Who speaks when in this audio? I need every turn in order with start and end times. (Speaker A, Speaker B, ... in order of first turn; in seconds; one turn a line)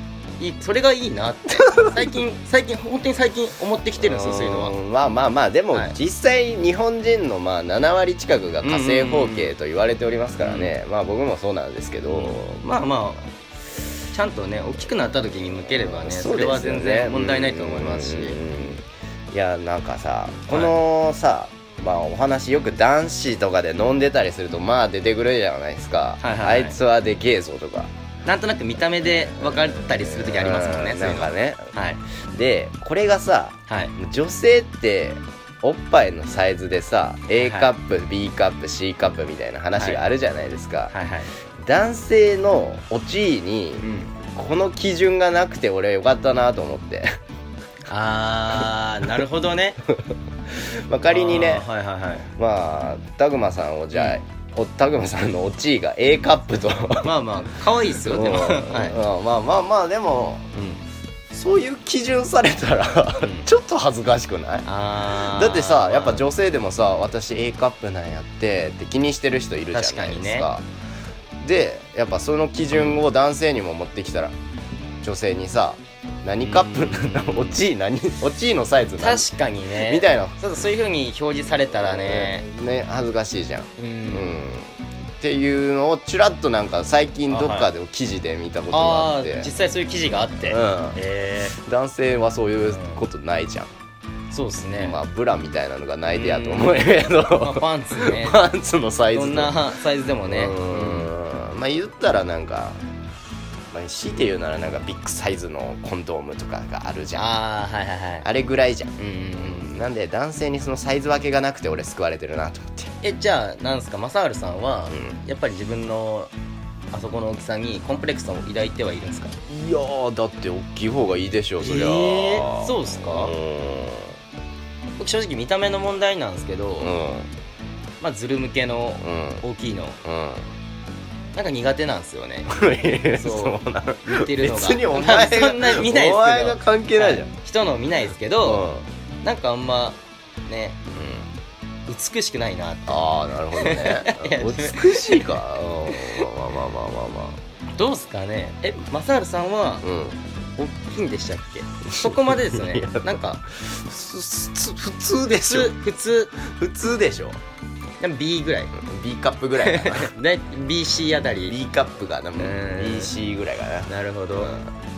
Speaker A: 0.4-4.8
Speaker B: 1.6-2.2
Speaker B: 4.0-12.7
Speaker A: 8.6-9.6
Speaker A: 10.4-10.7
Speaker A: 12.1-13.3
Speaker A: 14.1-18.4
Speaker B: 15.6-27.9
Speaker A: 20.5-20.8
Speaker A: 26.2-26.8
Speaker A: 28.2-32.0
Speaker B: 29.3-31.7
Speaker B: 32.3-40.9
Speaker A: 33.7-33.9
Speaker A: 37.4-37.7
Speaker A: 39.8-40.0
Speaker A: 40.9-41.3
Speaker B: 41.6-43.8
Speaker A: 43.8-44.2
Speaker B: 44.4-47.1
Speaker A: 47.9-49.8
Speaker B: 50.5-51.7
Speaker A: 51.1-52.3
Speaker B: 52.4-57.1
Speaker A: 57.0-59.0
Speaker B: 57.9-60.5
Speaker A: 60.5-60.8
Speaker B: 61.3-70.7
Speaker A: 63.2-63.5
Speaker A: 64.7-66.3
Speaker A: 69.7-70.5
Speaker B: 71.4-74.3
Speaker A: 72.7-73.0
Speaker B: 75.0-79.3
Speaker A: 76.4-77.6
Speaker A: 79.0-82.4
Speaker B: 79.8-80.4
Speaker B: 81.8-89.5
Speaker A: 83.8-84.4
Speaker A: 87.3-87.7
Speaker A: 88.7-91.6
Speaker B: 90.4-91.0
Speaker B: 91.5-93.7
Speaker A: 92.7-93.0
Speaker A: 94.3-95.0
Speaker B: 94.8-99.7
Speaker A: 96.1-98.5
Speaker A: 99.1-101.1
Speaker B: 100.2-102.8
Speaker B: 103.7-107.3
Speaker A: 107.2-108.3
Speaker B: 108.2-112.9
Speaker A: 109.0-109.7
Speaker A: 113.0-116.3
Speaker B: 114.9-115.2
Speaker A: 116.9-119.4
Speaker B: 119.5-124.2
Speaker A: 121.6-123.3
Speaker A: 125.0-127.0
Speaker B: 126.8-127.3
Speaker A: 128.0-130.0
Speaker B: 129.0-129.4
Speaker B: 130.1-130.5
Speaker A: 131.3-138.7
Speaker B: 132.5-137.3
Speaker B: 138.4-138.9
Speaker A: 139.2-140.8
Speaker B: 140.9-141.3
Speaker A: 141.9-146.3
Speaker B: 142.9-147.4
Speaker A: 147.8-149.9
Speaker B: 149.8-150.2
Speaker A: 150.6-153.4
Speaker B: 151.9-155.8
Speaker A: 155.3-156.3
Speaker B: 156.3-157.4
Speaker A: 158.0-158.7
Speaker B: 158.7-160.1
Speaker A: 159.6-161.6
Speaker B: 161.4-164.7
Speaker A: 162.4-163.2
Speaker A: 163.9-164.6